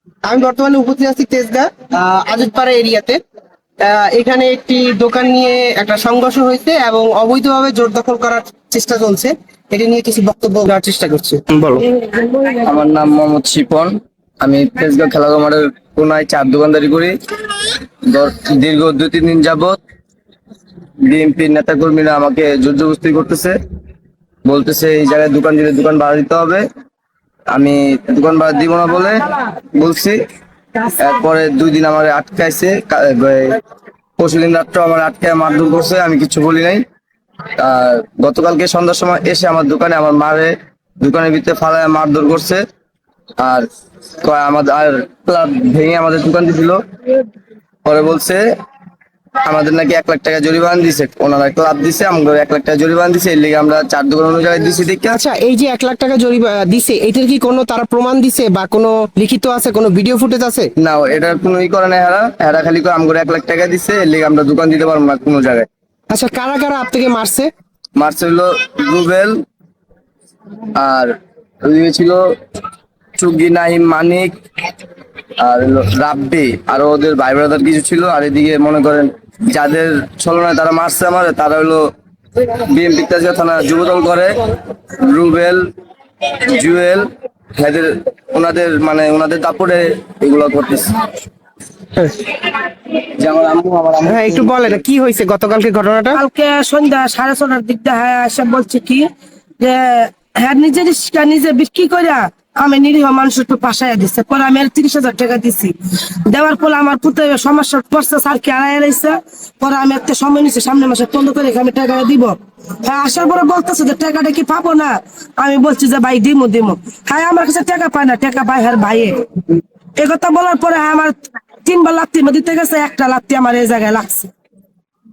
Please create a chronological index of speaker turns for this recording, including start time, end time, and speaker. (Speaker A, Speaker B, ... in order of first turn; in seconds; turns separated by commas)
Speaker A: 0.3-3.2, Speaker A: 3.8-11.8, Speaker B: 12.2-17.1, Speaker B: 18.1-19.8, Speaker B: 21.1-23.6, Speaker B: 24.4-26.6, Speaker B: 27.5-29.2, Speaker B: 29.8-30.2, Speaker B: 31.0-33.6, Speaker B: 34.2-36.8, Speaker B: 37.6-42.6, Speaker B: 43.4-43.6, Speaker B: 44.2-46.8, Speaker B: 47.8-48.4, Speaker B: 49.4-55.2, Speaker A: 55.1-60.7, Speaker B: 60.8-65.7, Speaker A: 66.1-67.5, Speaker B: 68.0-69.4, Speaker B: 70.7-71.1, Speaker B: 71.6-72.2, Speaker B: 73.2-74.3, Speaker B: 75.4-81.8, Speaker B: 82.4-84.4, Speaker B: 85.0-85.6, Speaker B: 86.4-91.0, Speaker B: 93.0-94.8, Speaker A: 94.0-96.2, Speaker C: 96.2-99.1, Speaker C: 99.6-119.2, Speaker C: 120.0-124.3